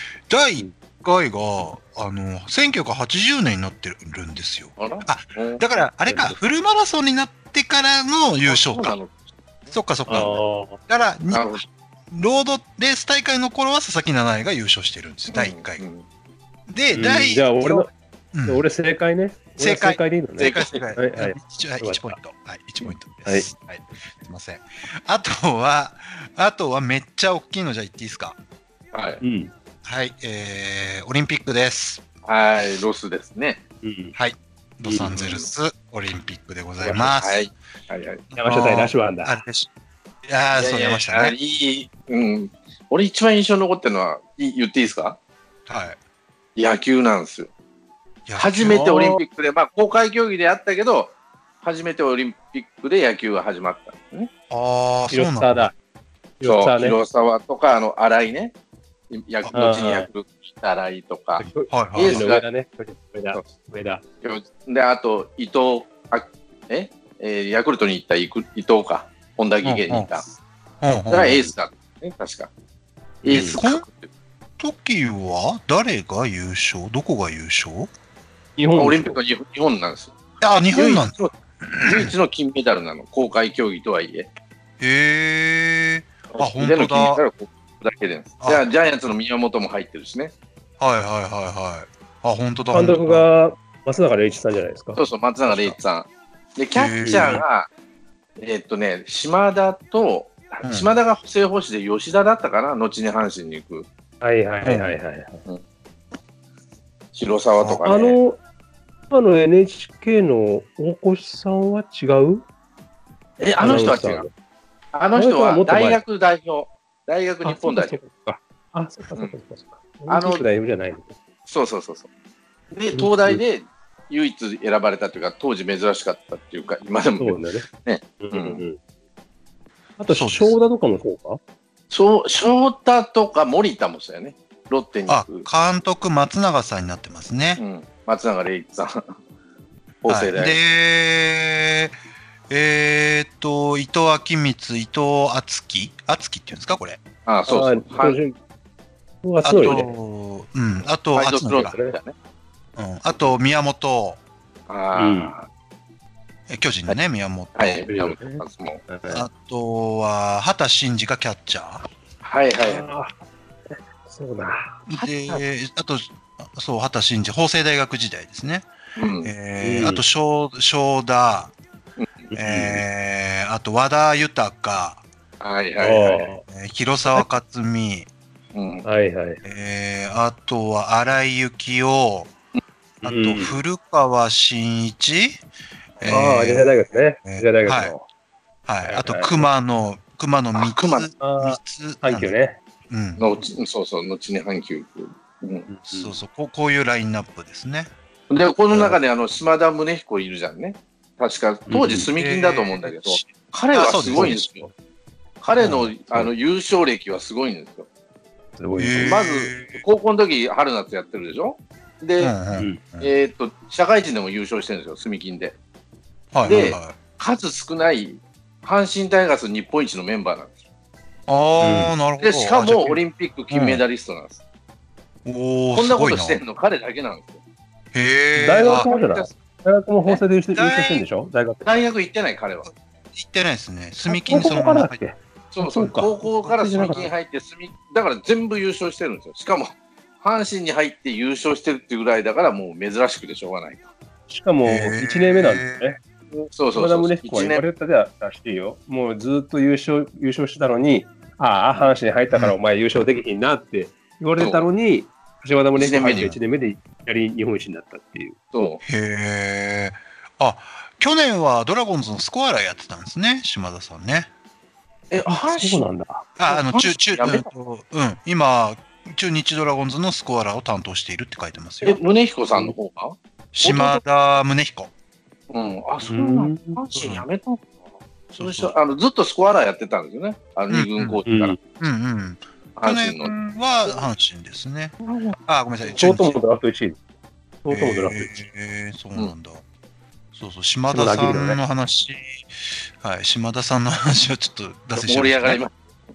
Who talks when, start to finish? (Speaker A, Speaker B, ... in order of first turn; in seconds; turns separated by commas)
Speaker A: 0.3-9.0, Speaker B: 4.8-5.7, Speaker C: 6.1-6.3, Speaker B: 8.4-9.8, Speaker A: 9.7-15.8, Speaker C: 10.1-10.8, Speaker B: 11.3-11.6, Speaker B: 15.3-16.1, Speaker A: 16.7-18.6, Speaker C: 16.9-17.9, Speaker C: 18.4-22.2, Speaker A: 19.6-28.4, Speaker B: 20.4-20.8, Speaker B: 28.9-29.2, Speaker C: 29.2-29.5, Speaker A: 29.8-32.0, Speaker B: 32.2-33.6, Speaker C: 33.8-34.1, Speaker A: 34.1-37.4, Speaker C: 34.8-35.1, Speaker B: 35.1-35.4, Speaker B: 36.8-38.2, Speaker A: 38.3-39.7, Speaker C: 38.4-39.3, Speaker A: 40.2-41.4, Speaker B: 40.5-45.2, Speaker A: 45.7-46.0, Speaker B: 46.5-47.5, Speaker A: 48.3-48.9, Speaker B: 48.4-54.3, Speaker C: 48.7-49.2, Speaker A: 54.5-55.7, Speaker C: 55.1-55.7, Speaker C: 56.4-57.0, Speaker B: 56.4-58.5, Speaker B: 59.1-62.4, Speaker C: 59.5-60.1, Speaker A: 61.4-62.3, Speaker C: 61.5-64.0, Speaker B: 64.2-70.2, Speaker A: 69.6-70.1, Speaker A: 70.8-71.4, Speaker B: 71.1-72.5, Speaker C: 73.2-73.6, Speaker B: 73.2-74.1, Speaker A: 73.3-73.8, Speaker A: 74.6-77.9, Speaker C: 78.6-79.2, Speaker B: 78.8-80.2, Speaker A: 80.4-82.1, Speaker B: 80.7-81.3, Speaker B: 81.8-84.3, Speaker A: 84.8-87.2, Speaker B: 86.3-90.3, Speaker A: 90.8-93.3, Speaker C: 92.7-95.8, Speaker B: 95.0-97.7, Speaker A: 96.7-97.4, Speaker C: 97.0-97.4, Speaker B: 98.4-103.9, Speaker A: 100.6-100.9, Speaker C: 104.2-105.4, Speaker A: 104.6-104.9, Speaker B: 107.1-108.2, Speaker C: 107.8-108.4, Speaker C: 109.1-112.5, Speaker B: 113.4-114.2, Speaker C: 113.6-114.3, Speaker B: 114.9-118.0, Speaker C: 115.1-116.0, Speaker C: 117.4-121.1, Speaker B: 120.1-120.5, Speaker B: 121.5-122.1, Speaker B: 122.7-128.6, Speaker C: 122.9-123.4, Speaker C: 127.2-127.6, Speaker C: 128.2-128.8, Speaker C: 130.0-131.4, Speaker A: 130.1-130.6, Speaker B: 131.9-135.4, Speaker A: 135.1-137.6, Speaker B: 137.6-139.0, Speaker B: 140.0-140.6, Speaker A: 140.1-141.9, Speaker A: 142.5-147.0, Speaker B: 147.2-148.2, Speaker C: 147.5-148.3, Speaker C: 149.2-149.9, Speaker A: 149.4-151.8, Speaker B: 151.1-152.1, Speaker A: 152.8-154.2, Speaker B: 154.7-155.5, Speaker C: 154.9-155.3, Speaker A: 156.5-157.9, Speaker B: 157.6-158.8, Speaker C: 157.9-159.3, Speaker A: 159.1-161.8, Speaker B: 162.2-162.8, Speaker C: 162.6-163.2, Speaker C: 163.7-165.4, Speaker A: 164.9-168.7, Speaker B: 169.0-169.3, Speaker A: 169.2-171.5, Speaker C: 169.6-170.0, Speaker B: 172.0-172.3, Speaker C: 172.3-172.8, Speaker A: 172.3-175.0, Speaker B: 175.4-176.3, Speaker C: 175.8-176.4, Speaker A: 176.5-178.1, Speaker B: 178.5-178.8, Speaker C: 178.8-179.4, Speaker A: 179.4-182.3, Speaker C: 183.0-183.6, Speaker A: 183.0-185.4, Speaker B: 186.0-186.3, Speaker A: 186.0-186.7, Speaker C: 186.1-188.1, Speaker A: 187.2-187.9, Speaker A: 188.7-192.3, Speaker C: 188.8-189.4, Speaker B: 190.5-191.1, Speaker C: 191.2-192.6, Speaker A: 192.9-193.3, Speaker B: 193.2-195.7, Speaker C: 195.7-196.2, Speaker A: 195.9-197.9, Speaker B: 198.3-204.6, Speaker C: 201.7-202.1, Speaker A: 202.1-204.4, Speaker C: 204.1-204.7, Speaker B: 205.4-207.9, Speaker A: 205.6-206.0, Speaker C: 208.6-209.2, Speaker A: 208.8-209.8, Speaker B: 209.0-212.3, Speaker A: 212.2-213.1, Speaker C: 212.5-212.8, Speaker B: 213.0-215.6, Speaker A: 216.3-217.0, Speaker B: 216.4-220.5, Speaker A: 221.3-223.8, Speaker C: 221.6-221.9, Speaker B: 222.2-224.4, Speaker A: 225.2-226.4, Speaker B: 225.7-227.4, Speaker A: 227.9-228.9, Speaker C: 228.3-231.7, Speaker B: 228.5-229.3, Speaker A: 230.5-231.0, Speaker B: 231.6-232.7, Speaker A: 233.1-235.0, Speaker C: 234.1-237.1, Speaker B: 235.5-243.9, Speaker A: 236.4-237.1, Speaker C: 244.3-258.4, Speaker A: 244.6-245.9, Speaker B: 246.5-247.6, Speaker A: 252.3-252.6, Speaker B: 254.4-254.7, Speaker B: 255.8-256.3, Speaker A: 256.0-256.4, Speaker B: 258.5-258.8, Speaker A: 258.8-264.3, Speaker B: 265.1-265.9, Speaker C: 265.2-266.4, Speaker A: 266.4-272.0, Speaker B: 266.5-267.5, Speaker B: 271.8-274.0, Speaker A: 273.5-274.9, Speaker B: 275.5-277.8, Speaker C: 276.1-276.9, Speaker A: 278.3-278.7, Speaker B: 278.4-281.6, Speaker A: 280.7-281.2, Speaker C: 281.3-281.6, Speaker A: 281.8-286.4, Speaker B: 282.8-283.3, Speaker B: 285.0-285.4, Speaker C: 285.9-287.0, Speaker C: 287.6-288.4, Speaker A: 287.7-289.6, Speaker A: 290.3-295.6, Speaker C: 290.9-291.6, Speaker B: 294.9-295.7